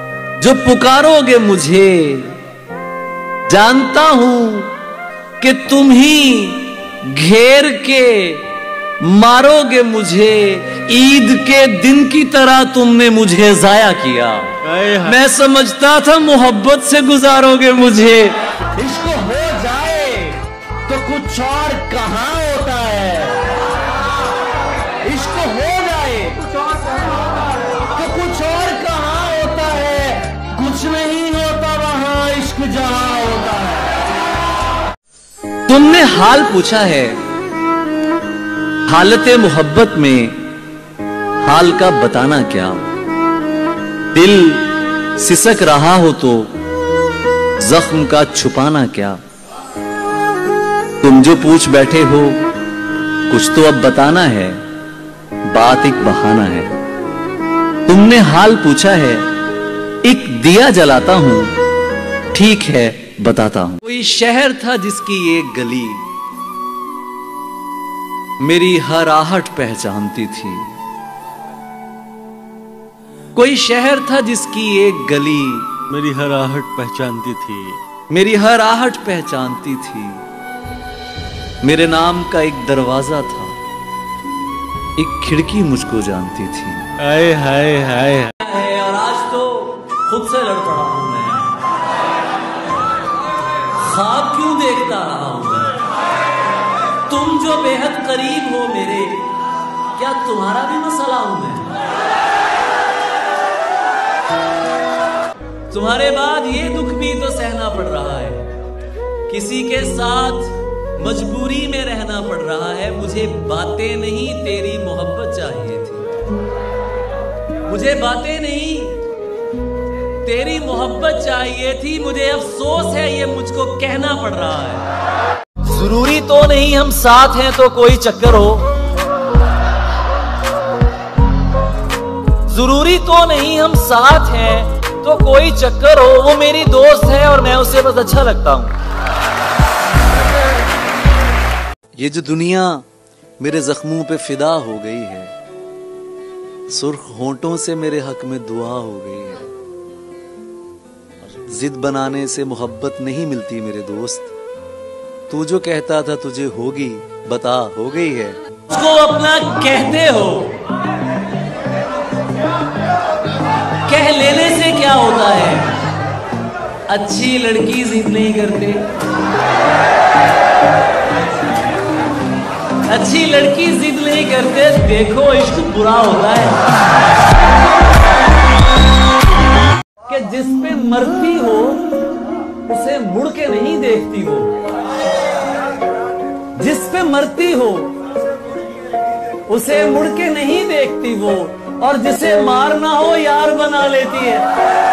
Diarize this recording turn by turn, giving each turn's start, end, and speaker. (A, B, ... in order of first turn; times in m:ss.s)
0:00.4-0:02.4 A
0:03.5-0:04.7 A
0:05.4-0:08.5 A
0:09.0-0:19.4 A
0:14.6-0:15.2 B
0:18.8-0:20.4 C
0:20.0-0:20.3 A
0:20.9-0:23.4 A
0:20.9-0:23.0 C
0:25.1-0:26.4 C
0:25.1-0:26.2 A
0:28.0-0:33.9 C
0:28.0-0:29.4 A
0:29.9-0:31.2 A
0:32.2-0:32.7 A
0:35.7-0:37.2 A
0:38.9-0:40.4 A
0:41.4-0:42.9 A
0:44.1-0:46.5 A
0:47.6-0:49.2 A
0:51.0-0:52.4 A
0:53.3-0:54.6 A
0:55.5-0:56.7 A
0:57.8-0:59.2 A
1:00.0-1:01.6 A
1:02.3-1:06.0 A
1:08.4-1:10.7 A
1:13.3-1:15.7 A
1:15.9-1:17.8 B
1:18.1-1:20.2 A
1:21.6-1:23.6 A
1:25.0-1:26.8 A
1:27.0-1:28.3 B
1:28.4-1:31.5 A
1:33.7-1:35.7 A
1:37.0-1:39.3 A
1:39.9-1:41.7 A
1:45.7-1:48.5 A
1:49.3-1:56.1 A
1:57.7-1:59.0 A
2:00.2-2:04.9 A
2:05.6-2:08.7 A
2:12.5-2:18.7 A
2:22.0-2:22.8 A
2:23.4-2:25.3 A
2:26.7-2:29.4 A
2:31.2-2:34.3 A
2:35.3-2:40.6 A
2:43.8-2:45.7 A
2:46.9-2:48.8 A
2:52.9-2:56.6 A
3:00.1-3:01.8 A
3:02.6-3:04.5 A
3:06.6-3:07.9 A
3:09.5-3:14.4 A